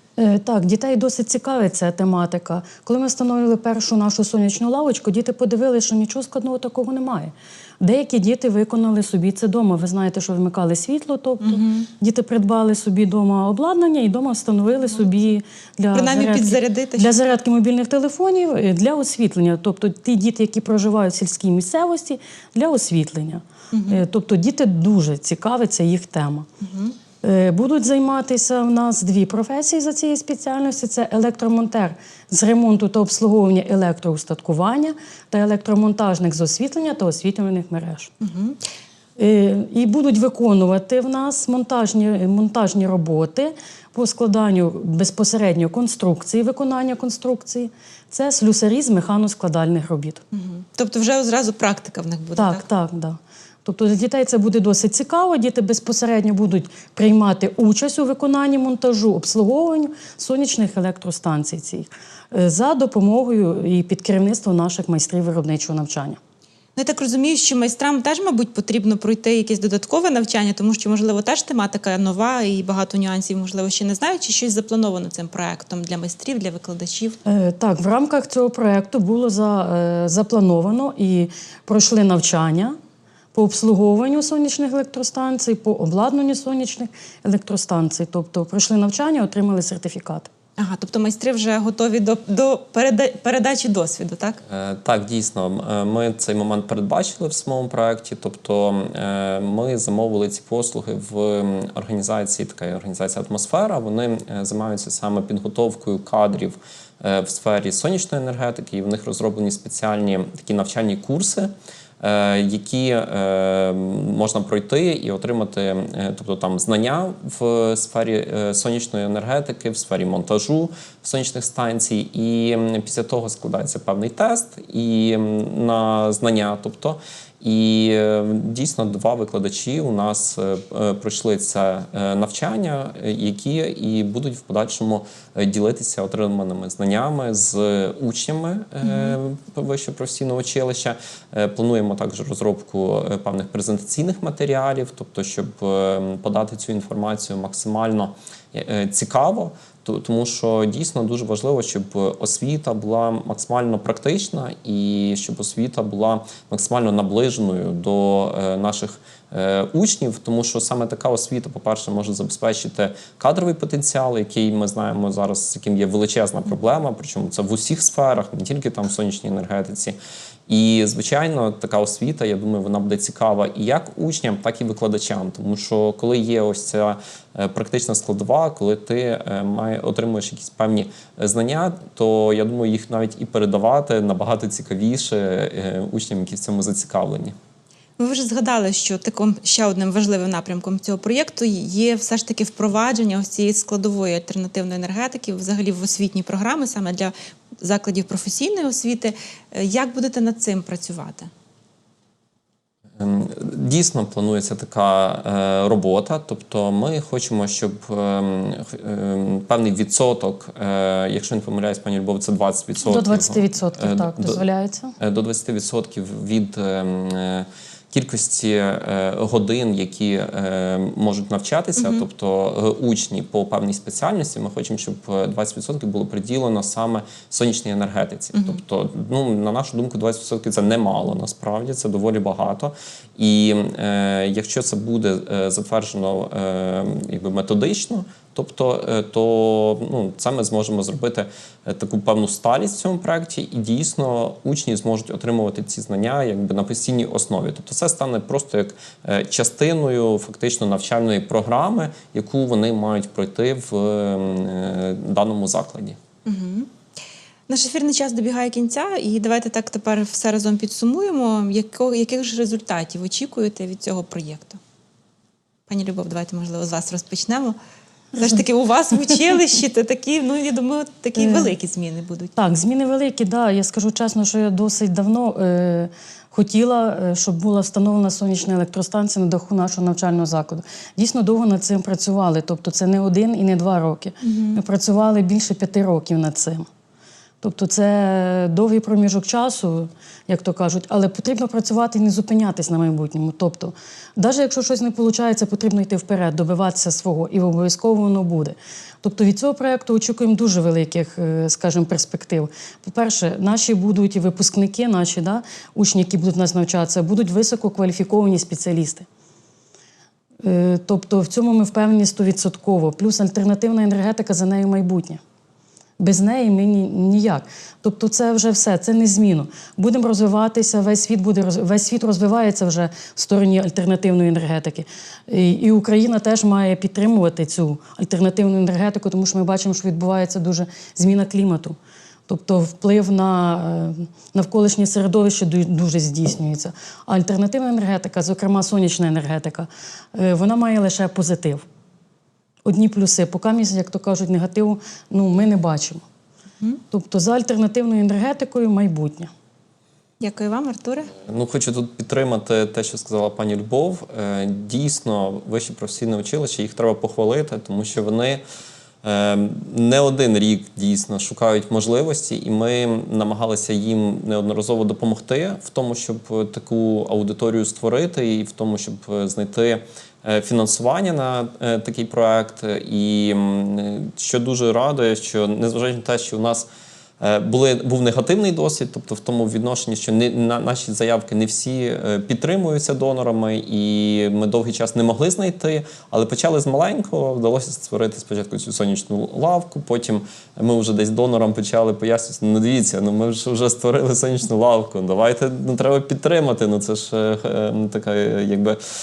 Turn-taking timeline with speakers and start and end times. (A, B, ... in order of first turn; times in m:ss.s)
0:00.2-0:26.4 A
0:11.4-0:11.9 B
0:15.9-0:17.1 B
0:23.7-0:24.0 B
0:26.6-0:27.0 B
0:27.2-0:38.1 A
0:38.2-0:38.6 B
0:39.2-0:50.2 A
0:50.3-0:52.6 B
0:52.4-1:06.2 A
1:06.8-1:17.2 B
1:17.2-1:22.8 A
1:23.3-1:30.3 A
1:30.6-1:34.4 B
1:34.5-2:50.0 C
2:18.8-2:19.2 B
2:50.5-3:07.3 C
3:08.0-3:21.3 B
3:23.0-3:34.4 C
3:32.8-3:34.9 A
3:35.0-4:16.0 C
3:41.8-3:42.0 B
3:48.3-3:48.6 B
4:16.2-4:16.7 B
4:17.5-4:24.6 B
4:25.7-4:27.6 B
4:28.1-4:32.3 B
4:31.2-4:31.4 A
4:32.4-4:46.7 A
4:44.2-4:44.6 B
4:47.4-5:09.0 A
5:10.4-5:15.2 A
5:16.0-5:41.6 A
5:42.6-5:46.0 A
5:46.9-5:49.3 A
5:50.2-5:51.1 B
5:51.1-5:58.4 C
5:59.0-6:16.7 C
6:17.2-6:38.8 C